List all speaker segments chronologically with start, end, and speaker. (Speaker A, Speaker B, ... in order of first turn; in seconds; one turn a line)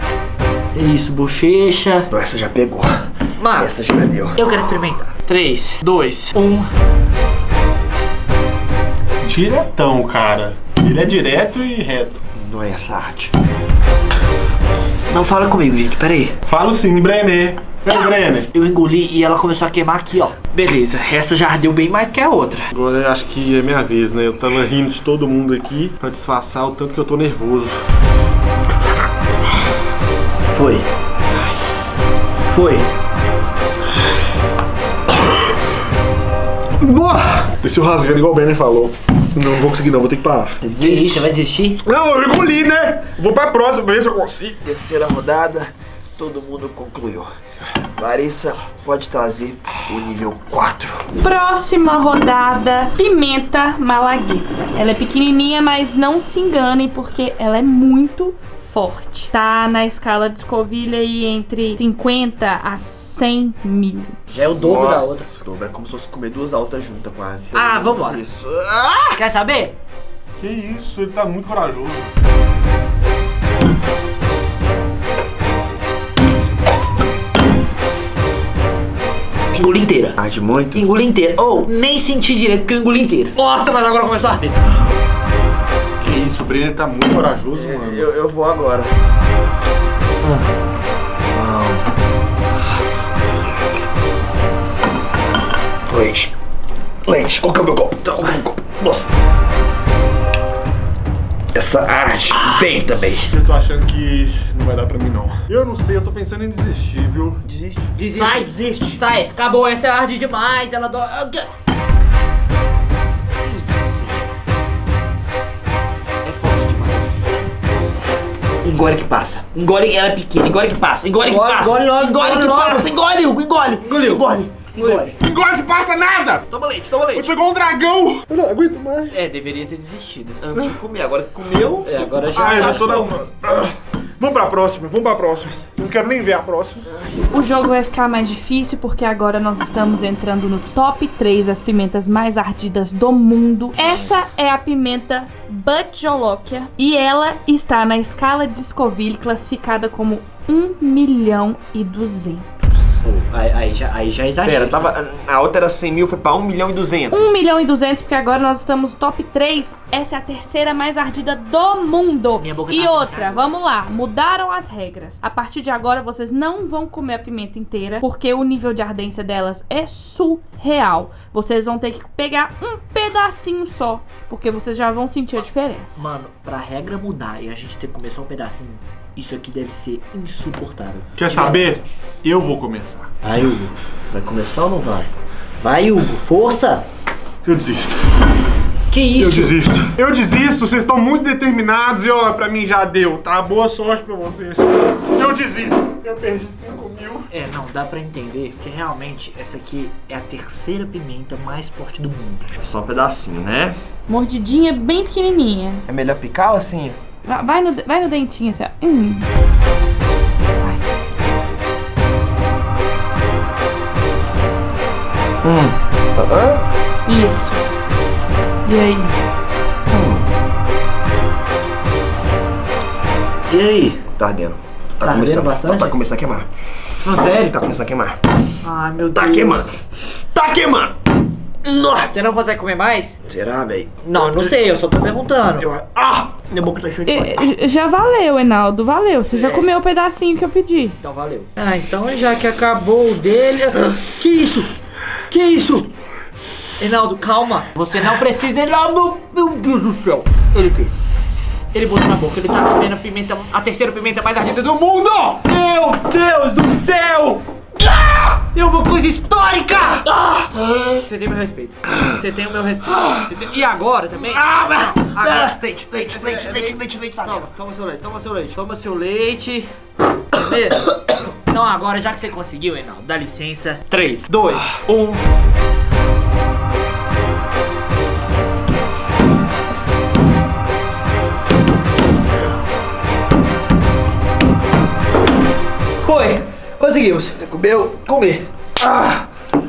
Speaker A: 0.8-2.1
Speaker B: 2.1-4.6
Speaker A: 3.4-3.8
Speaker A: 4.4-6.7
Speaker C: 9.2-12.2
Speaker B: 12.3-13.3
Speaker A: 15.1-16.4
Speaker C: 16.5-18.5
Speaker A: 18.5-22.7
Speaker C: 22.7-27.8
Speaker A: 30.5-30.9
Speaker A: 32.5-32.9
Speaker C: 36.8-40.6
Speaker B: 40.6-41.3
Speaker A: 40.7-41.8
Speaker C: 41.8-44.6
Speaker B: 44.6-47.3
Speaker B: 48.0-51.0
Speaker D: 51.2-64.2
Speaker A: 64.3-65.3
Speaker B: 64.6-69.2
Speaker A: 67.5-68.2
Speaker A: 69.2-69.8
Speaker C: 70.4-72.1
Speaker A: 79.5-80.2
Speaker B: 80.2-80.9
Speaker A: 80.7-84.6
Speaker C: 86.0-88.1
Speaker B: 87.5-88.9
Speaker C: 91.4-91.7
Speaker B: 95.9-96.3
Speaker B: 97.0-99.1
Speaker B: 101.5-103.3
Speaker C: 103.2-107.4
Speaker B: 107.4-109.0
Speaker A: 108.0-111.5
Speaker A: 113.4-114.3
Speaker A: 116.2-117.1
Speaker B: 118.6-125.1
Speaker A: 121.2-122.9
Speaker C: 122.5-122.9
Speaker C: 123.9-124.2
Speaker A: 124.8-125.1
Speaker C: 125.0-126.5
Speaker A: 126.5-127.3
Speaker C: 127.1-129.2
Speaker A: 129.1-130.4
Speaker B: 130.4-133.2
Speaker A: 131.8-132.9
Speaker C: 132.3-136.9
Speaker B: 137.0-137.3
Speaker D: 137.3-152.5
Speaker A: 153.0-154.9
Speaker B: 154.4-157.4
Speaker D: 157.1-176.0
Speaker A: 162.4-163.4
Speaker A: 175.9-181.8
Speaker C: 181.2-183.1
Speaker A: 183.2-183.7
Speaker B: 184.1-185.1
Speaker A: 185.6-186.8
Speaker C: 187.4-188.0
Speaker A: 188.9-189.6
Speaker C: 189.2-197.3
Speaker A: 197.3-202.5
Speaker B: 202.6-203.8
Speaker D: 204.1-205.8
Speaker B: 205.9-207.0
Speaker D: 207.2-209.3
Speaker B: 215.4-216.6
Speaker D: 217.1-217.7
Speaker D: 218.7-219.1
Speaker B: 219.9-220.2
Speaker A: 223.5-224.0
Speaker B: 224.1-226.5
Speaker A: 225.0-225.9
Speaker A: 227.0-227.6
Speaker B: 227.5-228.2
Speaker A: 228.6-229.7
Speaker B: 229.1-229.8
Speaker B: 230.3-231.0
Speaker B: 231.6-232.1
Speaker A: 232.1-233.2
Speaker B: 233.2-234.5
Speaker A: 234.1-235.7
Speaker B: 235.6-237.5
Speaker D: 237.1-241.0
Speaker A: 239.3-239.7
Speaker A: 241.0-244.7
Speaker A: 245.3-245.9
Speaker A: 246.8-251.0
Speaker A: 251.7-257.4
Speaker A: 258.2-260.1
Speaker B: 260.1-261.0
Speaker A: 261.1-269.7
Speaker B: 264.2-267.5
Speaker A: 270.3-275.2
Speaker A: 286.0-287.4
Speaker B: 287.3-288.1
Speaker A: 288.1-288.5
Speaker B: 288.8-289.3